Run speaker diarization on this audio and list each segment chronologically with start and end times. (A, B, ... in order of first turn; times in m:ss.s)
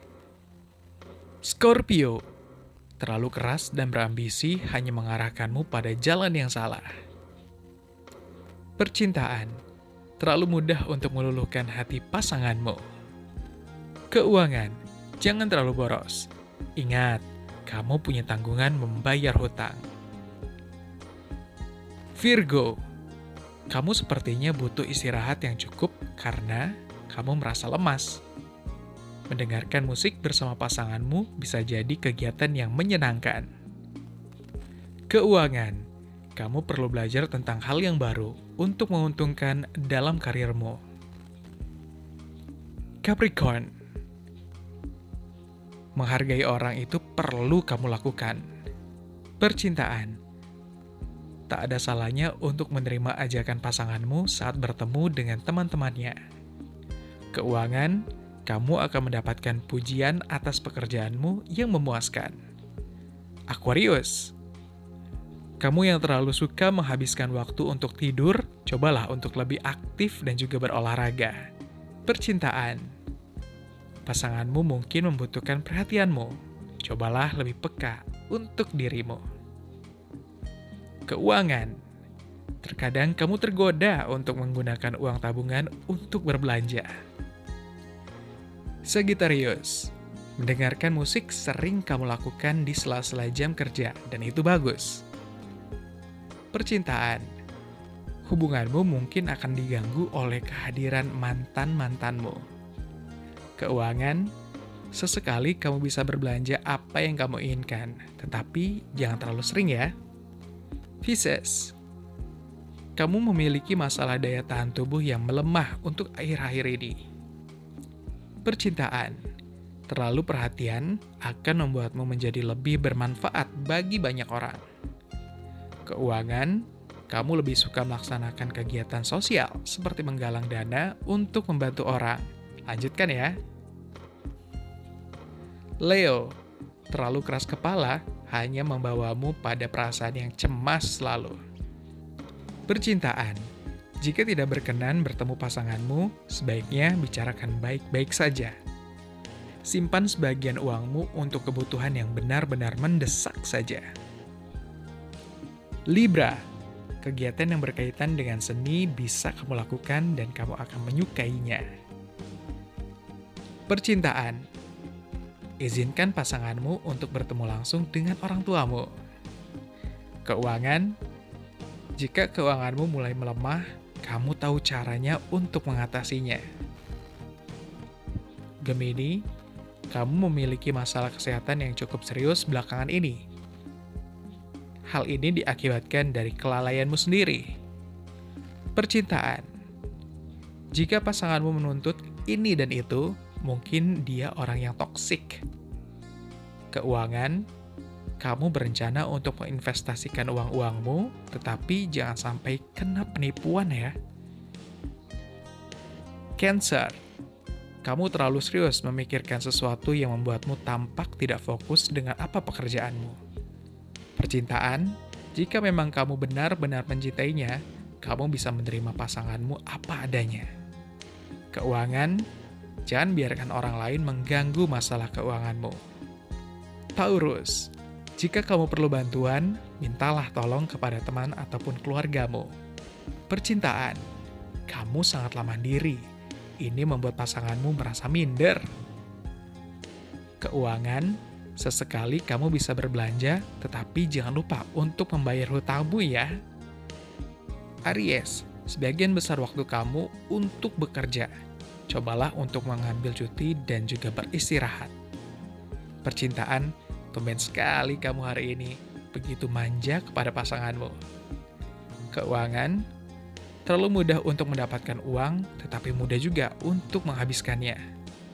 0:01.4-0:02.2 A
0:03.0-0:06.9 A
0:08.8-0:09.5 A
0:10.2-0:12.8 A
0:14.1-0:19.8 A
0:22.2-0:22.8 A
0:23.7-0:28.2 A
0:29.3-0:33.5 A
0:35.1-0:35.8 A
0:36.4-0:40.8 A
0:43.0-0:43.7 A
0:46.0-0:48.4 A
0:49.4-0:50.2 A
0:51.5-0:56.2 A
0:57.3-1:02.4 A
1:03.5-1:04.3 A
1:05.6-1:11.4 A
1:12.0-1:12.8 A
1:14.0-1:19.2 A
1:21.1-1:21.7 A
1:22.6-1:26.9 A
1:28.9-1:35.0 A
1:36.5-1:37.2 A
1:38.3-1:42.4 A
1:43.6-1:44.3 A
1:44.9-1:49.9 A
1:51.0-1:51.7 A
1:53.0-1:57.0 A
1:58.4-1:59.2 A
1:59.9-2:04.6 A
2:05.8-2:13.4 A
2:15.8-2:16.4 A
2:16.9-2:21.4 A
2:22.7-2:23.4 A
2:24.0-2:28.6 A
2:29.6-2:33.8 A
2:35.9-2:36.4 A
2:37.0-2:41.6 A
2:43.7-2:44.4 A
2:45.6-2:48.9 A
2:50.2-2:51.0 A
2:52.0-2:56.4 A
2:58.6-2:59.2 A
2:59.9-3:03.2 A
3:04.9-3:07.4 A
3:08.8-3:09.4 A
3:10.7-3:15.4 A
3:16.7-3:17.5 A
3:18.2-3:24.0 A
3:26.4-3:27.0 A
3:27.8-3:33.2 A
3:34.2-3:40.4 A
3:41.5-3:42.2 A
3:42.8-3:45.8 A
3:47.0-3:52.5 A
3:53.3-3:54.0 A
3:54.7-3:56.0 A
3:56.6-3:58.6 A
4:00.4-4:06.4 A
4:07.9-4:11.3 A
4:11.9-4:14.9 A
4:16.0-4:21.0 A
4:22.1-4:22.8 A
4:23.6-4:27.8 A